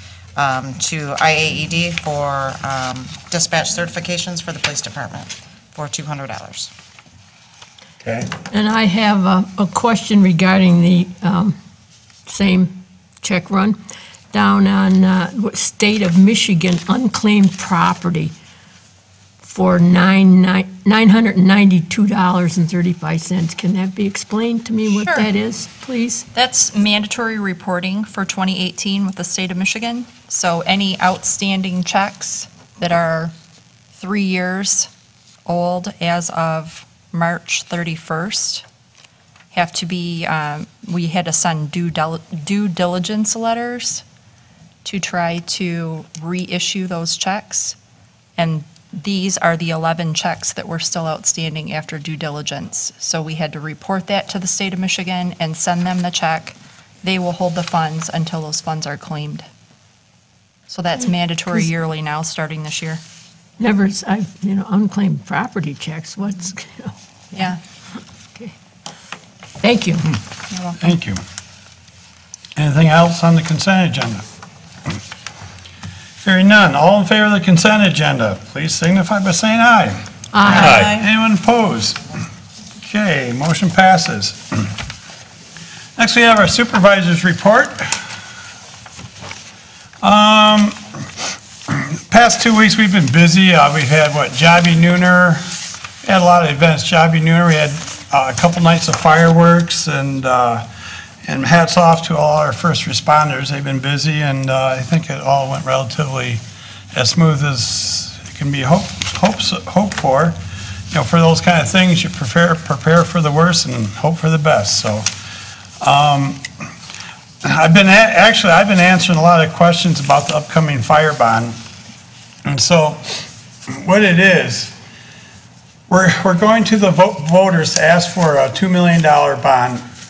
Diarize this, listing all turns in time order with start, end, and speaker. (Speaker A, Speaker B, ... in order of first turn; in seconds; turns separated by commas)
Speaker A: 0.4-6.7, Speaker B: 8.0-8.3, Speaker C: 8.5-11.6, Speaker C: 12.3-13.8, Speaker C: 14.3-18.3, Speaker C: 19.4-26.2, Speaker D: 24.9-25.3, Speaker D: 26.3-33.3, Speaker D: 34.0-34.9, Speaker D: 35.5-38.6, Speaker D: 39.5-44.0, Speaker D: 44.8-47.8, Speaker D: 48.4-59.5, Speaker D: 60.7-63.0, Speaker C: 63.6-67.5, Speaker D: 67.3-67.6, Speaker C: 69.6-70.2, Speaker D: 70.5-71.0, Speaker B: 70.8-71.2, Speaker B: 72.6-74.2, Speaker B: 76.2-82.1, Speaker C: 80.3-80.9, Speaker B: 82.8-84.7, Speaker B: 86.0-88.0, Speaker B: 90.0-90.8, Speaker B: 91.7-95.4, Speaker B: 96.0-100.7, Speaker B: 101.2-106.4, Speaker B: 106.9-110.3, Speaker B: 110.9-115.1, Speaker B: 115.8-116.5, Speaker B: 117.4-121.5, Speaker B: 122.5-124.7, Speaker B: 125.9-129.8